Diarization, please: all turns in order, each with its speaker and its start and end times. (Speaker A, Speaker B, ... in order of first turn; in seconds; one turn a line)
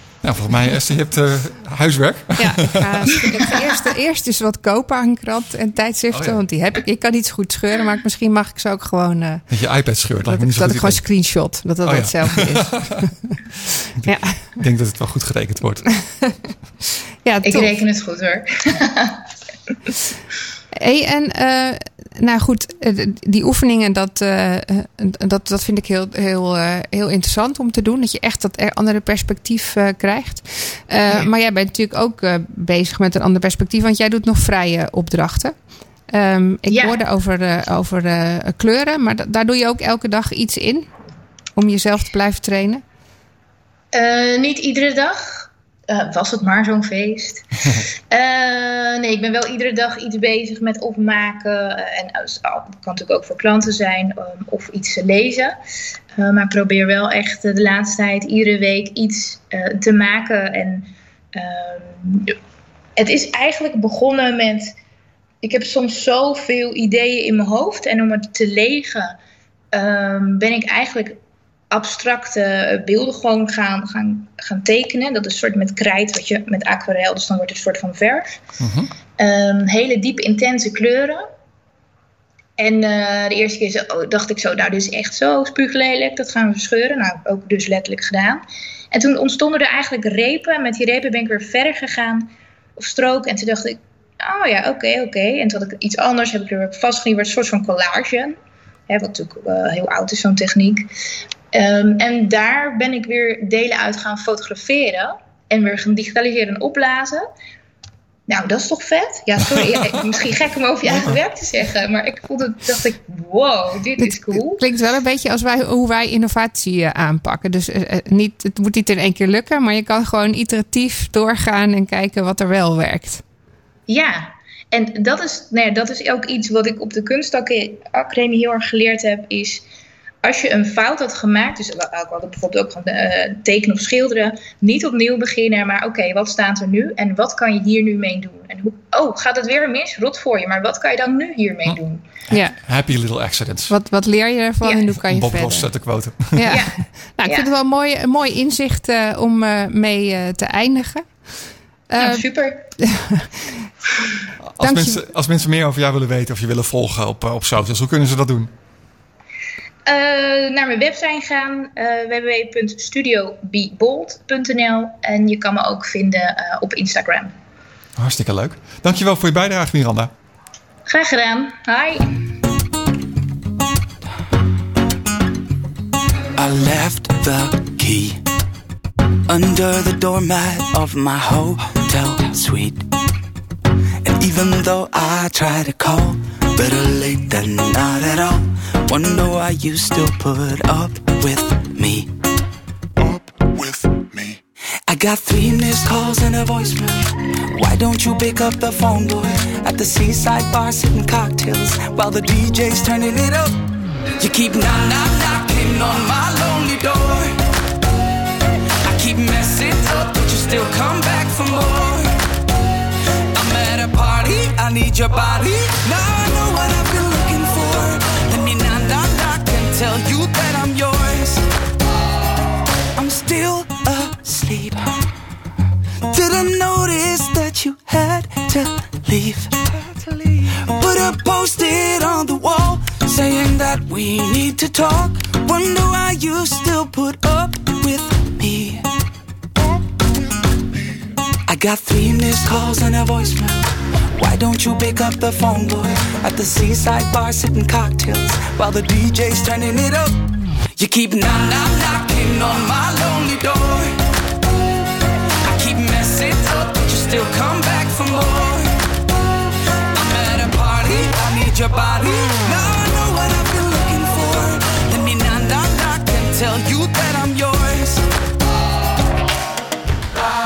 Speaker A: 0.2-3.2
Speaker B: 2.4-9.4
Speaker A: 6.1-6.4
Speaker A: 9.5-11.0
Speaker B: 10.2-13.1
Speaker A: 11.8-13.1
Speaker A: 13.8-15.8
Speaker B: 14.1-14.4
Speaker B: 17.2-17.7
Speaker C: 17.4-19.2
Speaker B: 20.7-35.5
Speaker B: 36.1-40.9
Speaker C: 36.7-37.0
Speaker B: 41.6-42.8
Speaker C: 43.9-47.5
Speaker C: 48.1-55.6
Speaker C: 56.2-62.4
Speaker C: 63.0-64.7
Speaker C: 65.4-69.2
Speaker C: 69.7-71.2
Speaker C: 71.7-78.4
Speaker A: 78.6-78.9
Speaker C: 79.2-81.3
Speaker C: 82.6-88.4
Speaker C: 88.9-98.4
Speaker C: 98.9-100.9
Speaker C: 101.5-107.3
Speaker C: 108.3-114.6
Speaker A: 110.9-111.2
Speaker B: 114.0-123.2
Speaker C: 123.9-129.7
Speaker C: 130.2-142.1
Speaker A: 142.3-143.7
Speaker B: 143.7-145.7
Speaker A: 145.0-146.6
Speaker B: 146.3-151.1
Speaker C: 146.5-147.5
Speaker B: 151.9-152.2
Speaker C: 152.0-152.7
Speaker B: 152.8-153.5
Speaker A: 154.5-158.5
Speaker B: 154.6-155.1
Speaker C: 159.9-167.3
Speaker A: 168.0-170.1
Speaker C: 170.9-172.1
Speaker D: 176.4-178.2
Speaker D: 179.3-182.8
Speaker D: 184.1-192.1
Speaker D: 194.9-203.6
Speaker D: 204.2-207.4
Speaker D: 208.8-212.2
Speaker D: 213.3-221.4
Speaker D: 223.0-224.9
Speaker D: 226.1-238.8
Speaker D: 241.5-250.2
Speaker D: 250.8-253.9
Speaker D: 255.4-258.8
Speaker D: 259.9-268.1